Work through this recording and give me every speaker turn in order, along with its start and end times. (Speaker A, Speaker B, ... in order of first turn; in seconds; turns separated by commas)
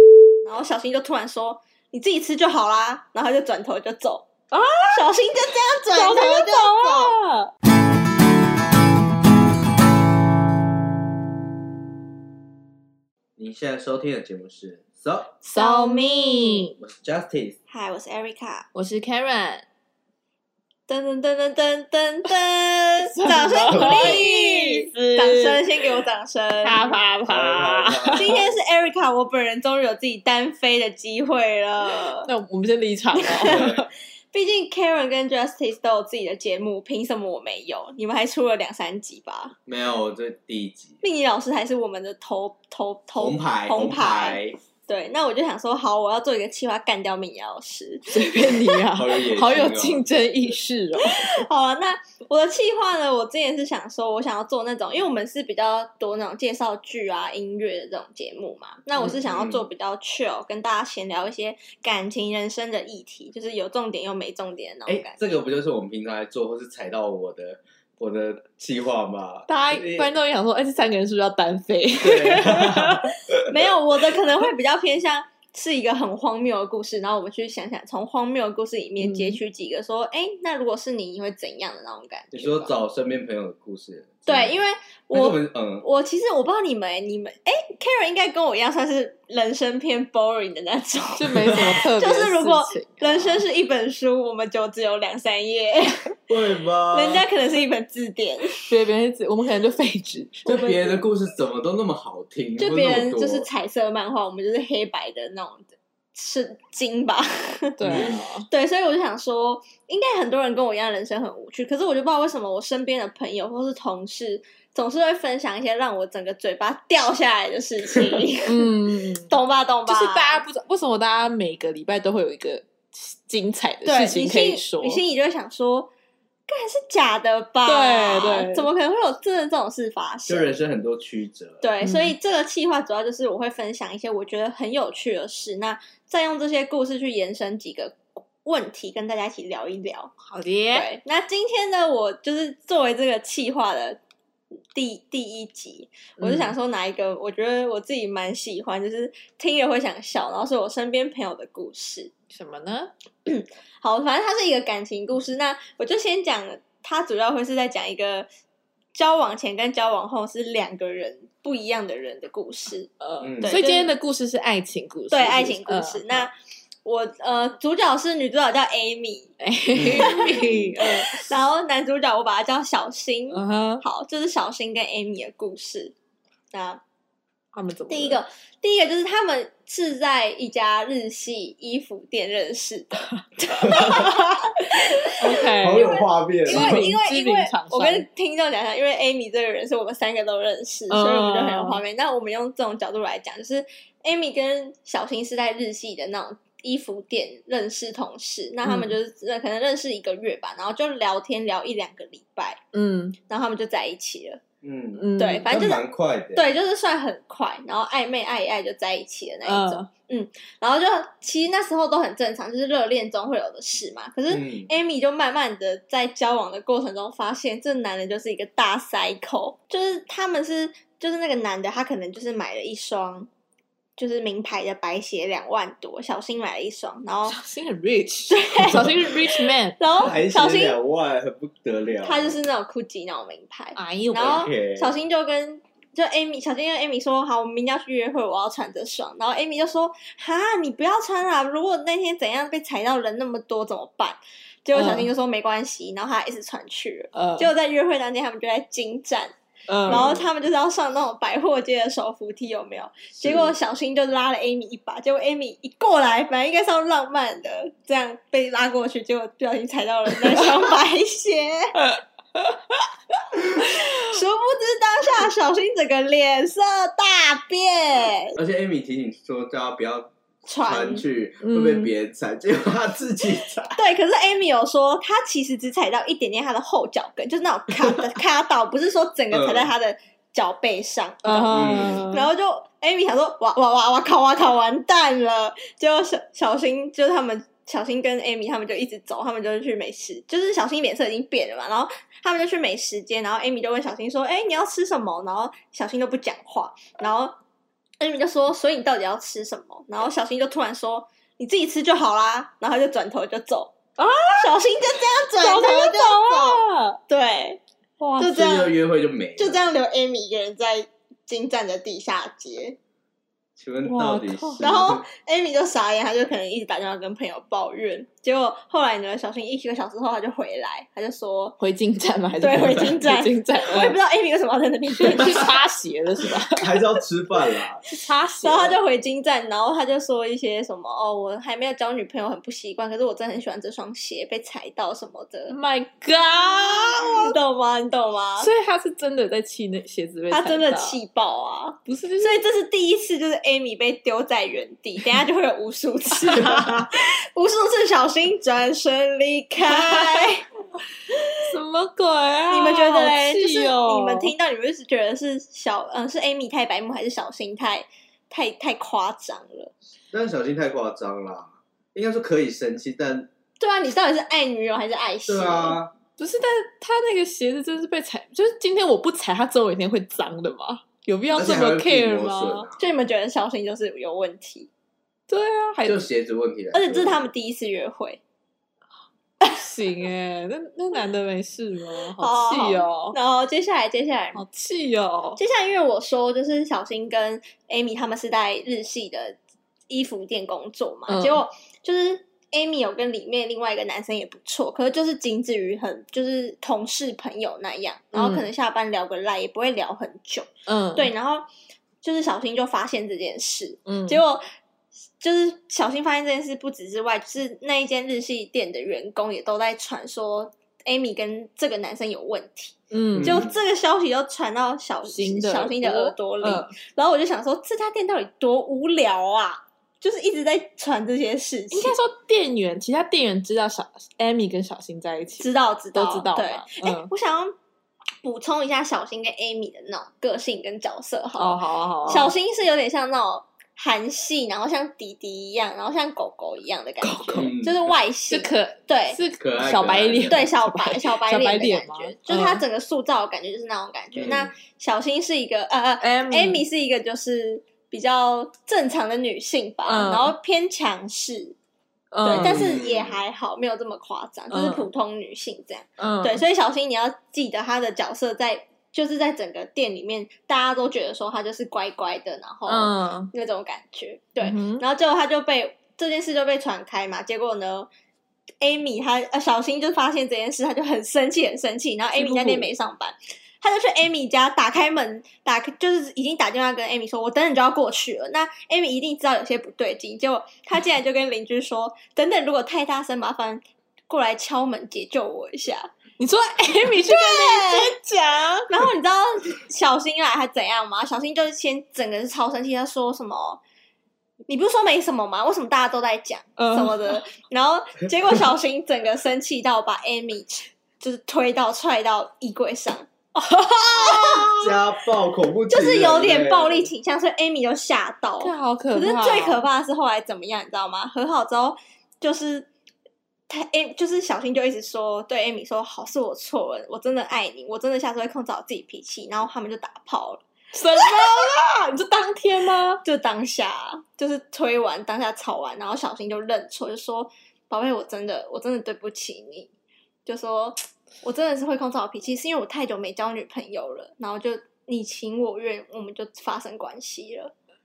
Speaker A: 0.4-4.3, Speaker B: 4.5-5.1, Speaker A: 4.8-7.2, Speaker B: 5.9-7.5, Speaker C: 13.4-15.3, Speaker A: 15.4-16.8, Speaker B: 15.5-16.8, Speaker C: 16.8-17.6, Speaker A: 17.7-18.7, Speaker B: 18.7-19.6, Speaker A: 20.9-26.9, Speaker B: 23.1-26.0, Speaker C: 23.6-24.2, Speaker B: 26.6-28.4, Speaker C: 27.3-28.5, Speaker A: 28.1-32.3, Speaker B: 32.0-33.7, Speaker A: 33.2-39.5, Speaker C: 33.4-33.8, Speaker C: 39.7-41.0, Speaker A: 41.0-48.8, Speaker C: 43.2-44.6, Speaker B: 48.1-51.4, Speaker C: 48.9-50.6, Speaker A: 51.0-65.2, Speaker C: 59.2-59.6, Speaker C: 64.9-70.1, Speaker B: 69.5-73.1, Speaker C: 72.0-73.3, Speaker A: 73.5-82.7, Speaker B: 79.0-79.4, Speaker C: 82.3-84.5, Speaker A: 84.3-96.2, Speaker C: 85.1-85.8, Speaker B: 91.2-93.4, Speaker C: 96.3-97.3, Speaker A: 96.9-98.6, Speaker B: 98.5-100.7, Speaker C: 100.5-103.5, Speaker A: 100.5-101.0, Speaker A: 102.6-120.4, Speaker B: 107.8-108.5, Speaker C: 107.8-108.2, Speaker B: 118.5-125.0, Speaker A: 123.8-125.9, Speaker A: 126.5-130.5, Speaker B: 127.7-128.7, Speaker C: 130.3-131.7, Speaker A: 131.6-140.1, Speaker B: 131.8-132.2, Speaker B: 140.2-140.9, Speaker A: 140.7-144.0, Speaker A: 144.7-152.1, Speaker B: 146.2-146.6, Speaker B: 152.3-152.9, Speaker A: 153.3-158.3, Speaker A: 158.9-162.9, Speaker B: 163.0-166.3, Speaker C: 163.2-163.6, Speaker A: 163.4-163.9, Speaker A: 165.1-166.3, Speaker A: 166.8-169.3, Speaker B: 169.4-171.3, Speaker C: 169.8-170.8, Speaker A: 169.9-175.9, Speaker B: 173.3-173.8, Speaker A: 176.5-176.8, Speaker B: 177.5-178.2, Speaker A: 177.9-202.6, Speaker C: 183.6-184.0, Speaker B: 185.2-188.1, Speaker C: 185.6-186.9, Speaker B: 190.9-191.8, Speaker B: 198.6-198.9, Speaker B: 202.7-203.2, Speaker A: 203.3-204.4, Speaker C: 204.6-206.5, Speaker B: 205.0-205.5, Speaker A: 205.2-205.8, Speaker A: 206.3-223.3, Speaker B: 209.5-209.9, Speaker C: 214.3-214.7, Speaker A: 224.0-227.4, Speaker B: 227.3-229.8, Speaker A: 228.3-230.8, Speaker C: 230.0-232.4, Speaker A: 232.0-249.3, Speaker B: 233.8-234.4, Speaker C: 234.2-235.0, Speaker B: 244.7-245.1, Speaker B: 247.1-247.5, Speaker B: 249.7-250.1, Speaker C: 249.8-250.2, Speaker A: 249.9-261.8, Speaker C: 253.2-253.6, Speaker B: 261.8-262.9, Speaker A: 263.6-268.4, Speaker B: 263.8-264.1, Speaker C: 268.4-273.8, Speaker A: 270.5-271.1, Speaker B: 271.4-271.9, Speaker A: 273.7-297.4, Speaker C: 279.3-279.7, Speaker B: 281.2-282.3, Speaker C: 281.5-282.0, Speaker A: 298.0-303.8, Speaker B: 304.0-304.6, Speaker A: 304.4-307.6, Speaker B: 305.4-307.0, Speaker B: 308.0-308.3, Speaker A: 308.2-308.8, Speaker C: 308.2-309.6, Speaker A: 309.4-312.8, Speaker C: 313.6-315.0, Speaker B: 313.9-314.6, Speaker A: 314.6-321.6, Speaker B: 321.6-324.0, Speaker A: 322.4-325.6, Speaker B: 325.0-326.8, Speaker C: 326.5-327.8, Speaker B: 327.9-328.8, Speaker A: 328.4-335.6, Speaker B: 335.5-337.4, Speaker A: 336.4-338.5, Speaker B: 338.4-341.0, Speaker A: 340.3-350.5, Speaker B: 341.9-342.5, Speaker B: 346.2-346.8, Speaker B: 349.6-350.3, Speaker B: 351.4-354.3, Speaker A: 352.5-359.7, Speaker C: 360.1-363.3, Speaker A: 363.6-365.8, Speaker C: 365.3-365.9, Speaker B: 366.2-372.7, Speaker C: 371.3-372.9, Speaker A: 372.8-374.7, Speaker B: 375.3-376.1, Speaker C: 375.9-377.2, Speaker A: 376.7-378.2, Speaker B: 379.4-383.2, Speaker A: 382.2-384.4, Speaker B: 384.4-385.4, Speaker A: 385.4-389.4, Speaker A: 389.9-401.5, Speaker B: 391.1-391.4, Speaker B: 398.1-398.5, Speaker B: 400.7-401.1, Speaker A: 402.0-404.4, Speaker B: 403.9-404.2, Speaker A: 405.2-422.0, Speaker B: 412.9-413.5, Speaker C: 413.1-413.6, Speaker B: 415.1-416.7, Speaker B: 421.7-427.1, Speaker A: 425.4-427.6, Speaker A: 428.2-439.2, Speaker B: 431.4-432.3, Speaker B: 437.0-437.5, Speaker C: 437.4-437.9, Speaker B: 438.3-442.6, Speaker C: 439.4-440.4, Speaker A: 440.3-451.6, Speaker C: 444.1-444.5, Speaker B: 446.0-446.6, Speaker B: 449.9-450.3, Speaker B: 452.1-452.7, Speaker A: 452.2-467.9, Speaker C: 452.3-453.2, Speaker B: 454.5-454.9, Speaker B: 456.0-456.4, Speaker B: 462.7-463.3, Speaker B: 464.4-464.8, Speaker A: 468.6-485.9, Speaker B: 472.1-472.7, Speaker B: 486.2-488.7, Speaker A: 487.0-487.9, Speaker A: 488.7-493.6, Speaker A: 494.5-503.1, Speaker B: 496.6-497.2, Speaker B: 503.4-504.7, Speaker A: 503.8-504.5, Speaker C: 504.6-506.9, Speaker A: 505.7-512.7, Speaker B: 508.4-509.6, Speaker A: 513.5-521.5, Speaker B: 520.7-523.0, Speaker A: 523.0-529.7, Speaker A: 530.3-537.5